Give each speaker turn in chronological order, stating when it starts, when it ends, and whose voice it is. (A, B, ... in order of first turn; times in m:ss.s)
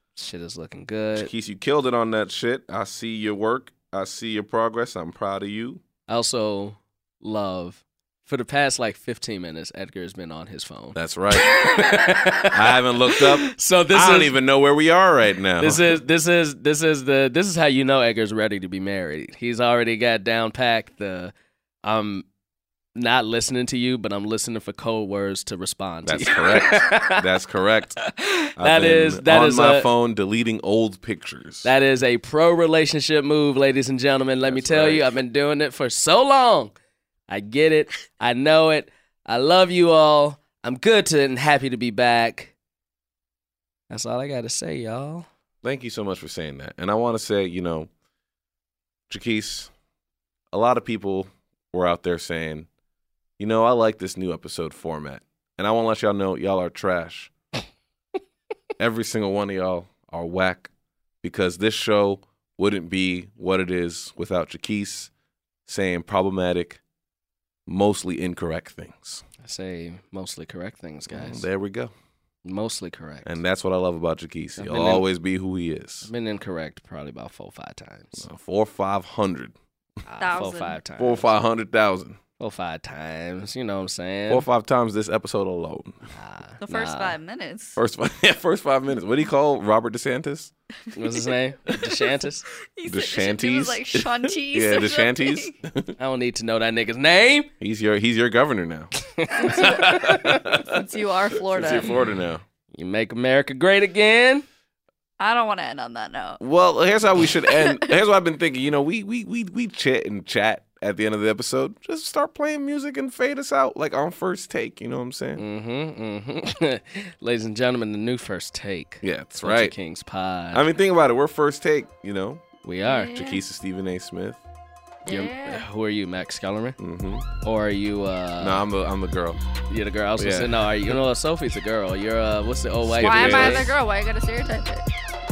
0:00.2-0:01.3 A
0:01.2-0:05.8 B
0:06.1-0:14.4 A
0:11.0-0:11.7 B
0:12.5-0:16.0 B
0:15.6-0:21.3 A
0:21.8-0:22.3 A
0:23.0-0:27.2 A
0:26.0-0:28.0 B
0:28.0-0:29.9 A
0:28.6-0:31.7 B
0:31.6-0:36.7 A
0:34.5-0:35.1 B
0:37.3-0:42.5 A
0:43.9-0:45.3 A
0:45.6-0:47.9 B
0:49.1-0:49.7 B
0:50.5-0:52.7 B
0:53.4-0:57.3 B
0:58.8-1:00.7 B
1:01.2-1:05.1 B
1:05.7-1:06.8 B
1:07.7-1:09.2 B
1:09.4-1:11.4 A
1:11.1-1:11.9 B
1:12.4-1:13.4 A
1:13.2-1:16.1 B
1:14.6-1:15.0 A
1:16.0-1:18.2 A
1:18.2-1:19.6 B
1:20.1-1:21.3 A
1:20.2-1:20.8 C
1:21.0-1:22.2 B
1:22.4-1:24.5 A
1:24.3-1:26.1 B
1:26.1-1:27.2 A
1:26.6-1:27.8 C
1:27.8-1:30.5 B
1:30.9-1:32.5 A
1:32.8-1:35.5 C
1:32.9-1:35.9 B
1:36.0-1:37.5 A
1:37.6-1:40.8 B
1:39.1-1:40.4 A
1:39.6-1:39.9 C
1:40.5-1:41.9 C
1:41.4-1:42.4 B
1:42.7-1:44.4 A
1:45.2-1:46.4 C
1:46.4-1:55.4 B
1:47.4-1:47.9 C
1:55.4-2:00.6 A
1:59.0-1:59.7 B
2:00.5-2:02.4 B
2:02.6-2:03.1 A
2:02.8-2:03.4 C
2:03.1-2:04.4 B
2:05.1-2:05.6 C
2:05.1-2:06.8 A
2:06.8-2:07.3 B
2:07.4-2:08.6 A
2:08.4-2:09.4 B
2:09.7-2:13.7 A
2:10.2-2:11.0 B
2:12.8-2:13.8 B
2:13.0-2:14.9 C